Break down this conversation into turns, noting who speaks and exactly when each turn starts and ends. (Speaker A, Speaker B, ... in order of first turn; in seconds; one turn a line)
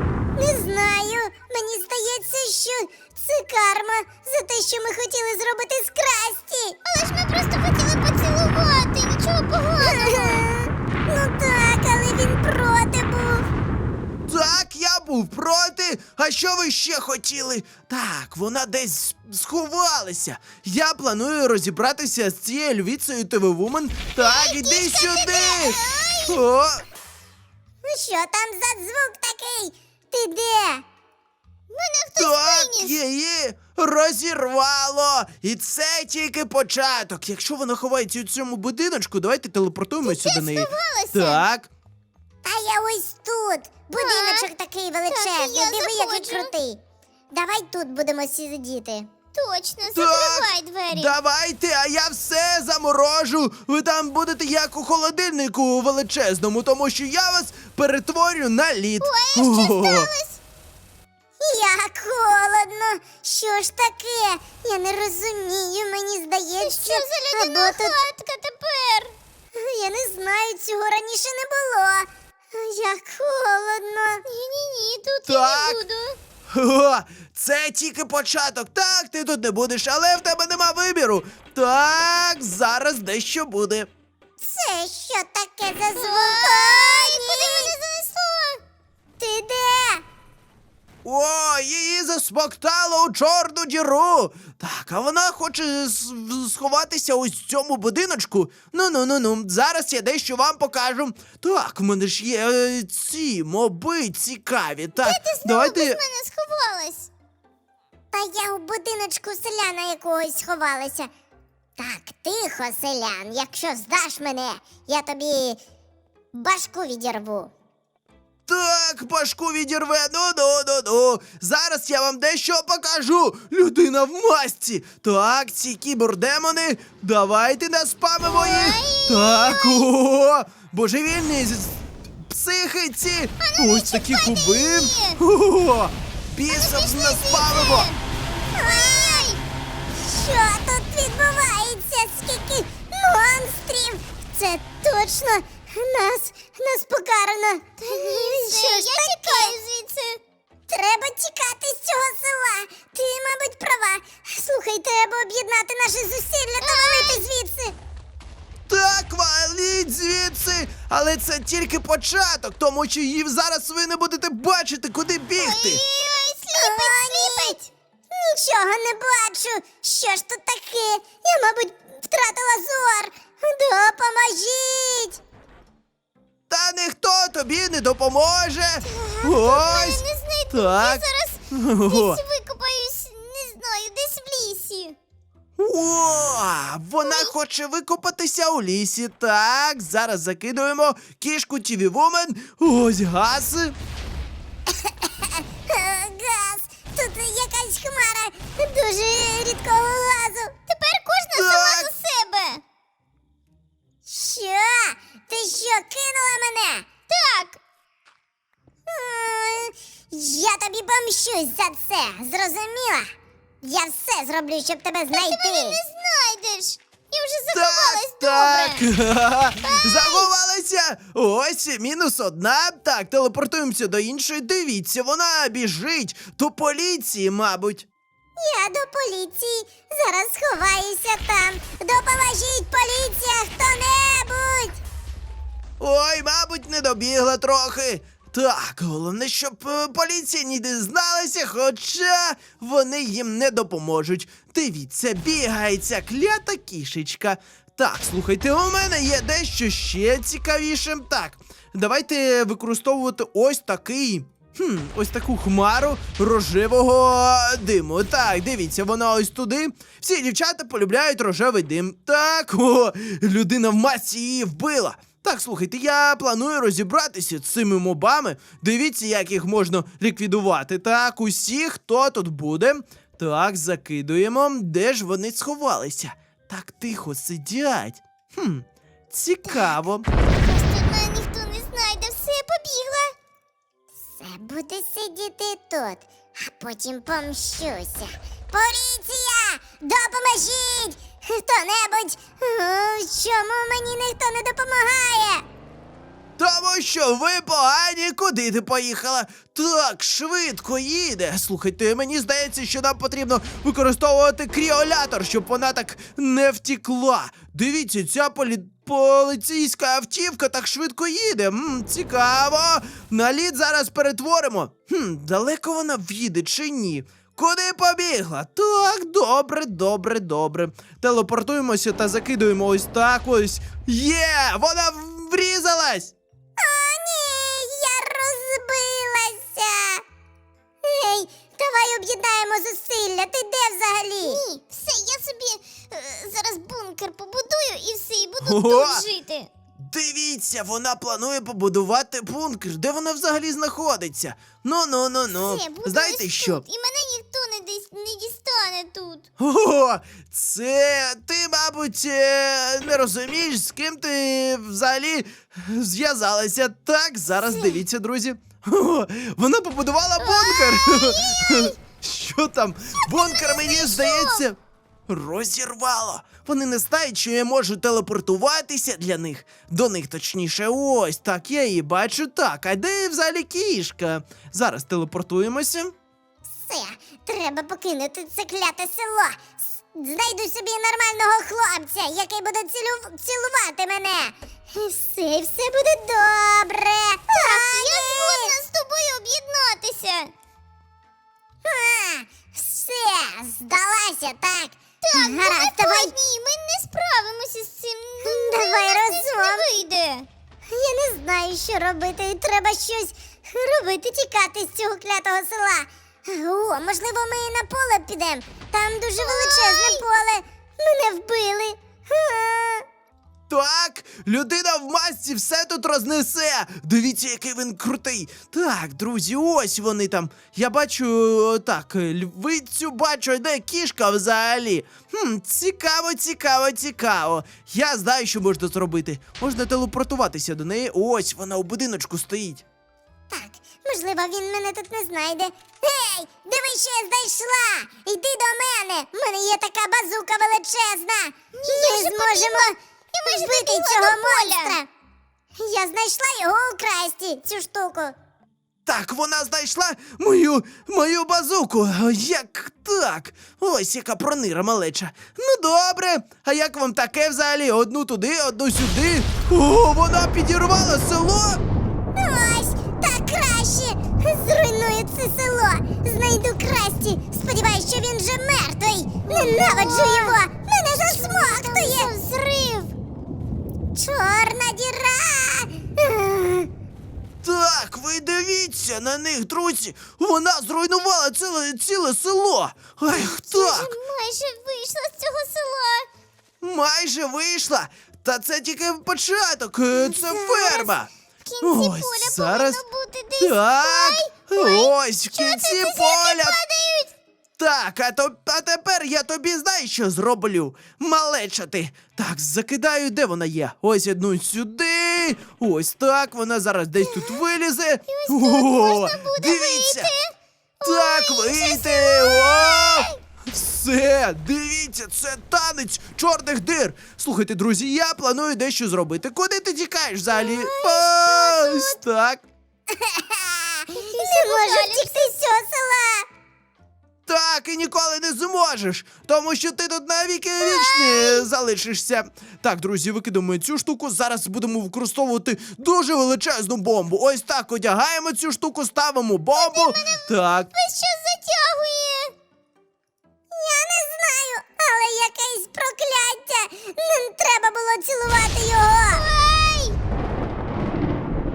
Speaker A: 0.3-6.8
Speaker B: 6.8-10.5
Speaker A: 9.8-13.4
Speaker C: 14.2-26.8
Speaker B: 24.2-26.4
Speaker A: 27.8-30.8
Speaker B: 31.7-32.9
Speaker C: 32.1-41.7
Speaker B: 40.0-41.4
Speaker A: 42.4-46.8
Speaker B: 43.9-44.5
Speaker B: 45.1-46.5
Speaker A: 47.3-49.1
Speaker B: 49.3-51.1
Speaker C: 49.9-60.1
Speaker B: 59.0-60.4
Speaker A: 61.4-67.9
Speaker B: 66.6-69.2
Speaker A: 69.5-74.2
Speaker B: 74.2-76.2
Speaker C: 75.2-75.8
Speaker C: 76.5-83.9
Speaker A: 84.4-87.7
Speaker B: 85.9-88.6
Speaker A: 89.2-90.0
Speaker C: 91.0-106.0
Speaker B: 105.0-107.1
Speaker A: 108.1-111.1
Speaker A: 111.8-115.6
Speaker A: 116.3-117.5
Speaker C: 118.5-137.9
Speaker B: 128.2-129.9
Speaker B: 133.4-135.2
Speaker B: 136.5-138.0
Speaker A: 138.5-139.3
Speaker B: 138.5-139.4
Speaker A: 140.0-149.5
Speaker B: 147.8-150.2
Speaker A: 150.7-157.7
Speaker B: 156.6-157.2
Speaker C: 158.7-165.8
Speaker B: 165.3-167.7
Speaker A: 166.5-167.6
Speaker A: 168.1-175.2
Speaker C: 176.5-182.2
Speaker B: 178.8-184.9
Speaker C: 185.6-193.7
Speaker B: 187.0-187.3
Speaker A: 194.7-200.5
Speaker B: 200.7-202.6
Speaker C: 201.3-201.9
Speaker A: 204.1-206.9
Speaker B: 207.1-207.6
Speaker A: 208.9-213.1
Speaker A: 213.6-215.8
Speaker B: 215.1-218.9
Speaker C: 217.5-227.9
Speaker B: 219.6-220.3
Speaker A: 228.4-234.8
Speaker C: 235.8-280.1
Speaker B: 280.3-283.1
Speaker A: 284.2-295.4
Speaker C: 296.4-326.1
Speaker A: 326.6-330.0
Speaker A: 330.8-334.4
Speaker B: 334.2-339.5
Speaker C: 338.4-339.0
Speaker C: 339.8-346.6
Speaker B: 345.4-349.2
Speaker C: 349.4-375.9
Speaker B: 357.4-357.8
Speaker B: 360.2-361.7
Speaker B: 363.0-364.4
Speaker A: 376.7-388.5
Speaker B: 387.3-390.3
Speaker A: 391.6-396.1
Speaker B: 395.0-400.3
Speaker A: 398.2-399.7
Speaker A: 400.7-412.8
Speaker B: 409.2-410.0
Speaker C: 413.5-432.6
Speaker A: 433.3-444.9
Speaker B: 441.5-444.8
Speaker A: 445.6-448.1
Speaker C: 448.9-461.6
Speaker A: 462.1-472.1
Speaker B: 469.2-472.9
Speaker A: 473.9-476.7
Speaker C: 477.4-483.9
Speaker B: 483.1-486.1
Speaker C: 486.6-491.1
Speaker B: 489.9-497.1
Speaker C: 491.6-492.8
Speaker C: 493.4-496.6
Speaker C: 497.6-510.1
Speaker B: 507.0-507.4
Speaker B: 508.1-513.1
Speaker C: 510.8-522.5
Speaker B: 520.7-521.8
Speaker A: 522.9-526.3
Speaker B: 524.0-525.3
Speaker C: 527.2-540.7
Speaker A: 530.6-531.5
Speaker B: 539.5-542.3
Speaker A: 543.5-549.2
Speaker B: 549.1-550.0